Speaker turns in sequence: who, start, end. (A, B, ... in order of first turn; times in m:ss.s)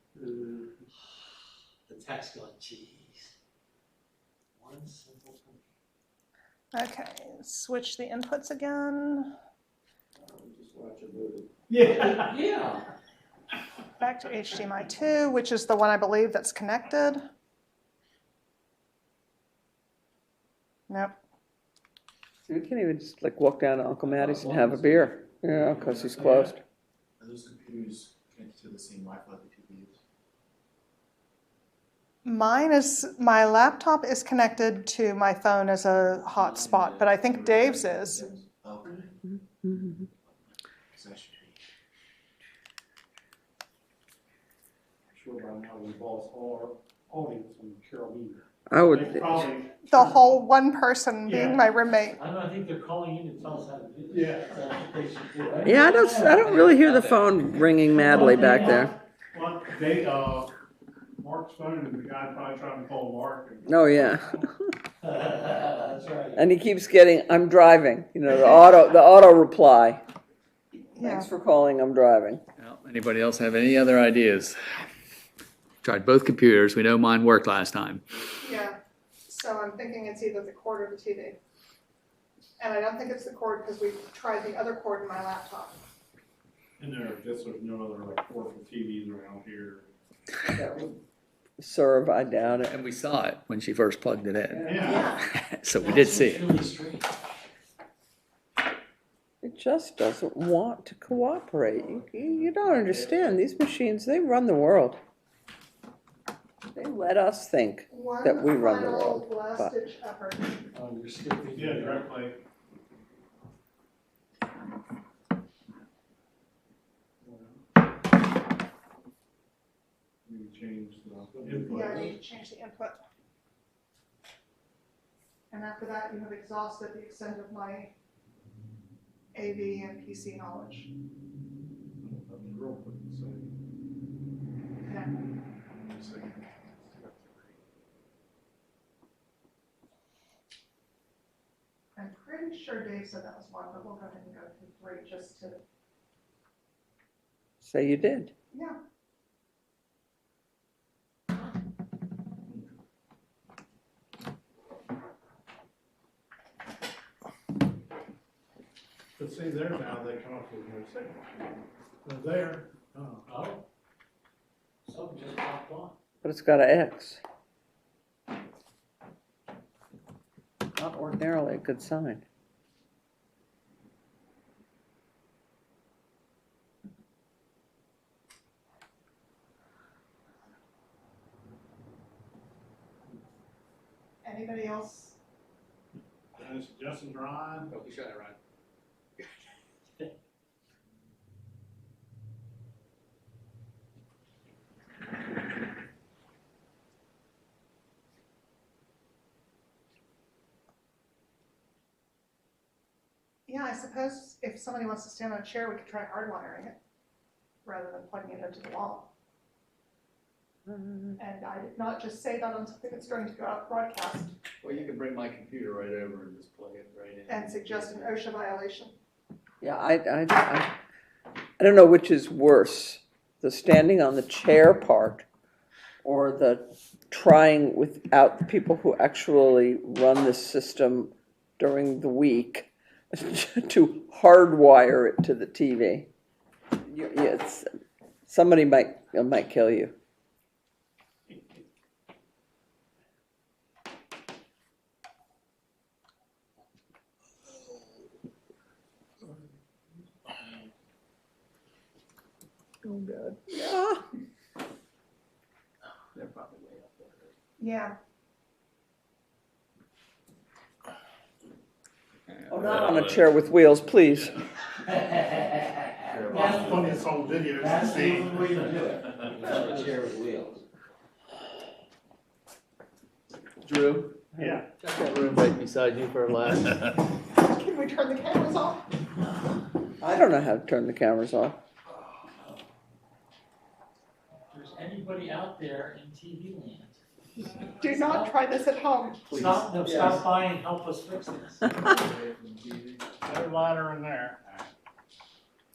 0:00.2-0:00.5 A
0:01.9-0:03.3 B
0:04.5-0:05.6 B
0:06.7-0:09.3 C
0:10.9-0:11.2 D
0:11.7-0:12.3 A
0:11.8-0:12.8 B
0:14.0-0:17.2 C
0:20.9-0:21.2 C
0:22.5-0:26.6 E
0:26.0-0:26.5 A
0:27.2-0:29.9 F
0:32.2-0:38.3 C
0:37.2-0:38.9 F
0:39.2-0:40.0 E
0:41.0-0:41.5 F
0:45.1-0:50.0 A
0:48.7-0:49.5 E
0:49.8-0:52.2 C
0:51.3-0:51.6 A
0:52.2-0:56.9 B
0:54.1-0:54.6 A
0:55.6-0:58.9 E
0:58.0-0:58.8 B
0:58.0-1:00.5 A
1:01.2-1:04.3 A
1:03.6-1:04.5 E
1:05.0-1:06.4 B
1:06.3-1:10.0 E
1:10.9-1:11.3 C
1:11.0-1:12.4 E
1:12.6-1:14.8 D
1:15.8-1:18.0 D
1:18.4-1:21.4 C
1:22.6-1:25.8 C
1:26.8-1:29.9 A
1:30.5-1:31.0 E
1:31.6-1:32.7 E
1:32.7-1:36.5 D
1:34.5-1:35.2 E
1:34.6-1:35.1 A
1:35.8-1:37.1 B
1:39.4-1:45.0 E
1:46.7-1:49.7 E
1:47.9-1:50.6 C
1:50.7-1:52.1 B
1:51.5-1:52.4 A
1:57.2-1:57.6 A
2:00.2-2:02.1 A
2:01.4-2:01.8 F
2:01.7-2:03.0 C
2:05.5-2:07.9 C
2:09.3-2:10.9 C
2:12.0-2:13.5 A
2:14.8-2:15.1 C
2:15.7-2:17.5 A
2:21.9-2:25.6 C
2:27.6-2:28.3 E
2:28.5-2:28.8 C
2:39.2-2:41.3 A
2:42.0-2:43.3 A
2:43.3-2:43.6 B
2:44.8-2:45.9 B
2:46.2-2:47.2 E
2:50.8-2:52.2 E
3:04.2-3:05.2 C
3:06.3-3:07.7 A
3:07.7-3:08.4 D
3:23.5-3:26.8 C
3:27.6-3:29.1 C
3:30.8-3:31.1 E
3:31.2-3:34.3 C
3:34.6-3:38.0 D
3:37.3-3:38.9 C
3:39.6-3:40.7 E
3:41.6-3:45.2 E
3:46.0-3:56.1 E
3:56.8-3:57.7 E
3:58.2-3:59.9 E
4:12.8-4:13.4 D
4:13.5-4:14.0 E
4:16.1-4:17.3 D
4:17.6-4:18.0 C
4:22.3-4:23.2 D
4:22.5-4:24.4 E
4:25.0-4:25.6 B
4:26.1-4:27.0 D
4:26.3-4:26.9 B
4:26.4-4:28.5 A
4:27.4-4:30.3 B
4:29.4-4:30.2 D
4:33.6-4:34.3 D
4:34.4-4:34.7 A
4:34.8-4:37.0 D
4:37.3-4:38.8 C
4:40.0-4:41.6 E
4:44.5-4:47.0 B
4:47.8-4:49.4 C
4:47.8-4:48.4 B
4:49.3-4:51.7 B
4:49.8-4:50.2 E
4:51.8-4:53.1 D
4:53.2-4:54.7 A